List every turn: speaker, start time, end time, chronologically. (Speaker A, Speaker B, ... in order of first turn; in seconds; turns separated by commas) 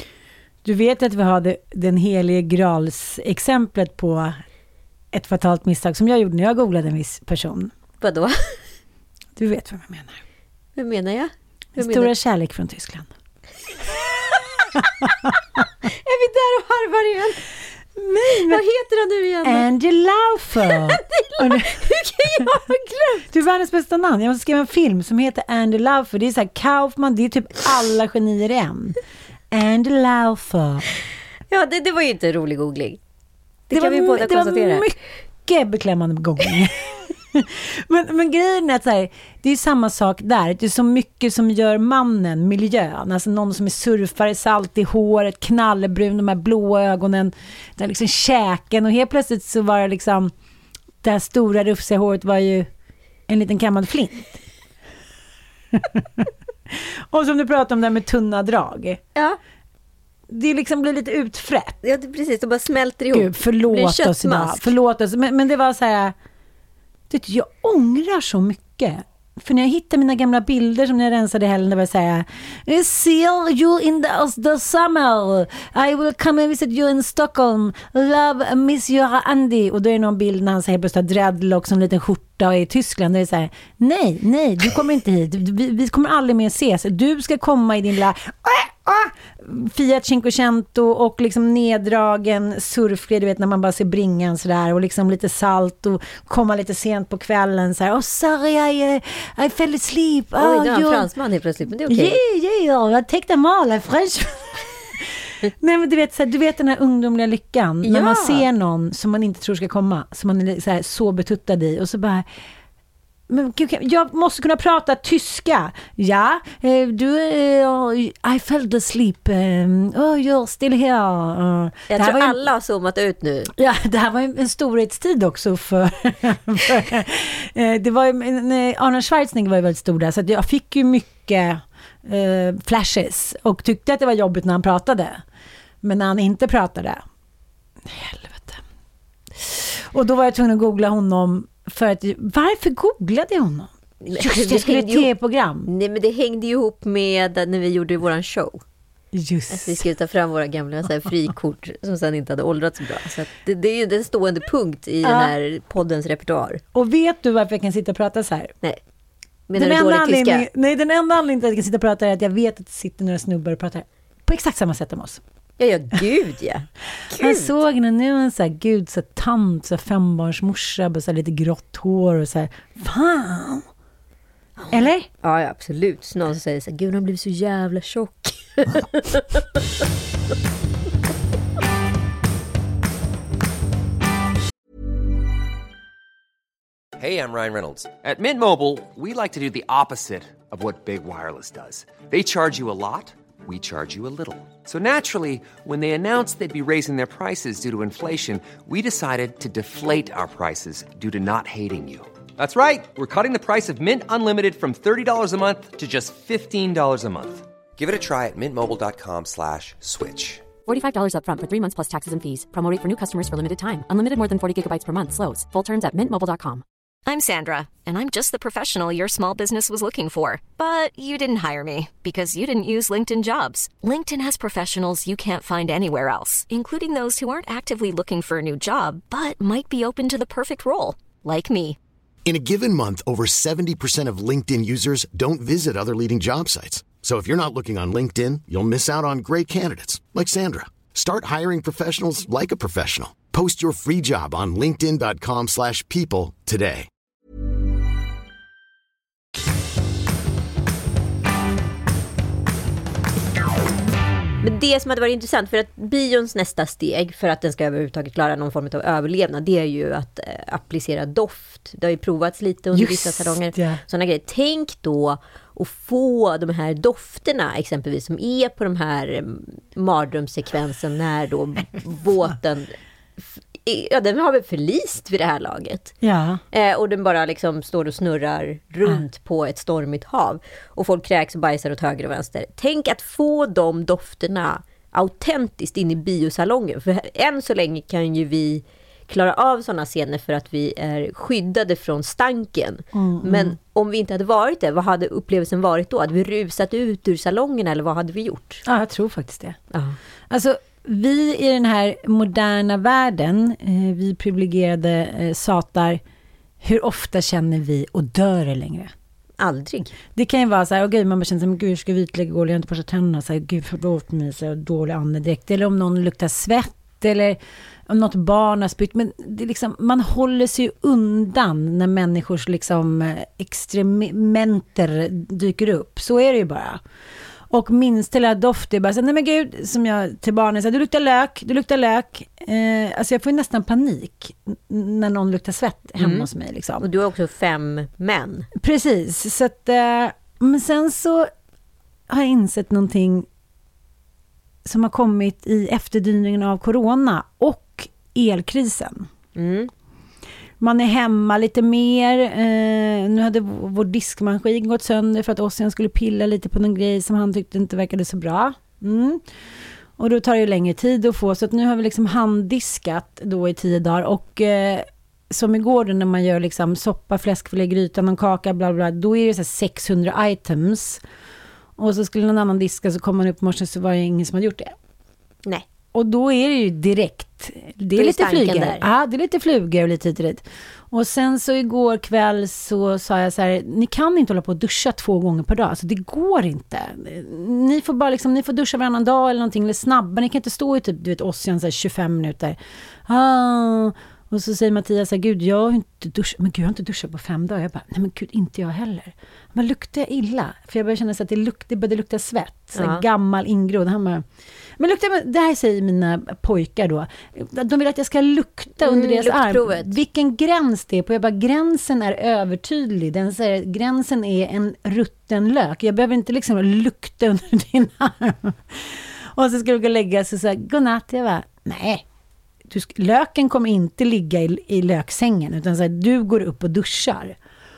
Speaker A: 0.7-4.4, Speaker A: 5.1-7.7, Speaker B: 8.0-8.6, Speaker A: 9.4-10.2, Speaker B: 10.8-12.1, Speaker A: 11.8-13.1, Speaker B: 14.3-17.4, Speaker A: 18.0-18.6, Speaker B: 18.3-19.7, Speaker A: 19.4-22.5, Speaker B: 20.7-23.3, Speaker A: 23.3-29.0, Speaker A: 29.5-30.9, Speaker B: 31.5-33.0, Speaker B: 33.7-34.9, Speaker A: 33.7-50.3, Speaker A: 51.0-52.7, Speaker A: 53.3-54.4, Speaker A: 55.7-59.0, Speaker A: 60.3-61.8, Speaker B: 61.8-64.7, Speaker A: 63.1-66.2, Speaker A: 67.1-101.1, Speaker B: 100.4-102.2, Speaker A: 101.9-112.3, Speaker B: 107.8-108.5, Speaker A: 113.3-122.4, Speaker B: 121.9-123.5, Speaker A: 123.5-135.2, Speaker A: 135.8-137.0, Speaker A: 137.8-138.6, Speaker A: 139.3-145.7, Speaker B: 144.0-145.1, Speaker B: 145.7-148.6, Speaker A: 149.1-149.8, Speaker B: 149.5-156.6, Speaker A: 155.0-155.3, Speaker A: 156.8-158.5, Speaker B: 159.5-160.5, Speaker A: 159.6-165.2, Speaker B: 165.6-167.6, Speaker A: 167.1-173.7, Speaker B: 174.6-179.4, Speaker A: 174.7-175.1, Speaker C: 187.0-210.5, Speaker D: 210.6-216.6, Speaker E: 217.1-231.8, Speaker F: 232.2-246.9, Speaker B: 254.4-275.9, Speaker A: 262.7-263.8, Speaker A: 276.0-276.4, Speaker B: 276.5-298.6, Speaker A: 292.9-293.6, Speaker A: 298.7-299.6, Speaker A: 300.3-306.0, Speaker A: 306.6-308.9, Speaker B: 309.4-309.9, Speaker A: 310.1-326.8, Speaker A: 327.5-336.9, Speaker B: 336.0-336.3, Speaker B: 336.8-338.5, Speaker A: 338.6-341.3, Speaker A: 342.1-343.3, Speaker A: 344.6-349.1, Speaker B: 349.4-349.7, Speaker A: 350.6-359.2, Speaker A: 360.0-371.0, Speaker A: 371.8-374.8, Speaker A: 375.9-404.2, Speaker B: 377.9-378.8, Speaker B: 402.8-403.0, Speaker A: 404.8-422.0, Speaker B: 408.8-409.9, Speaker A: 422.7-427.4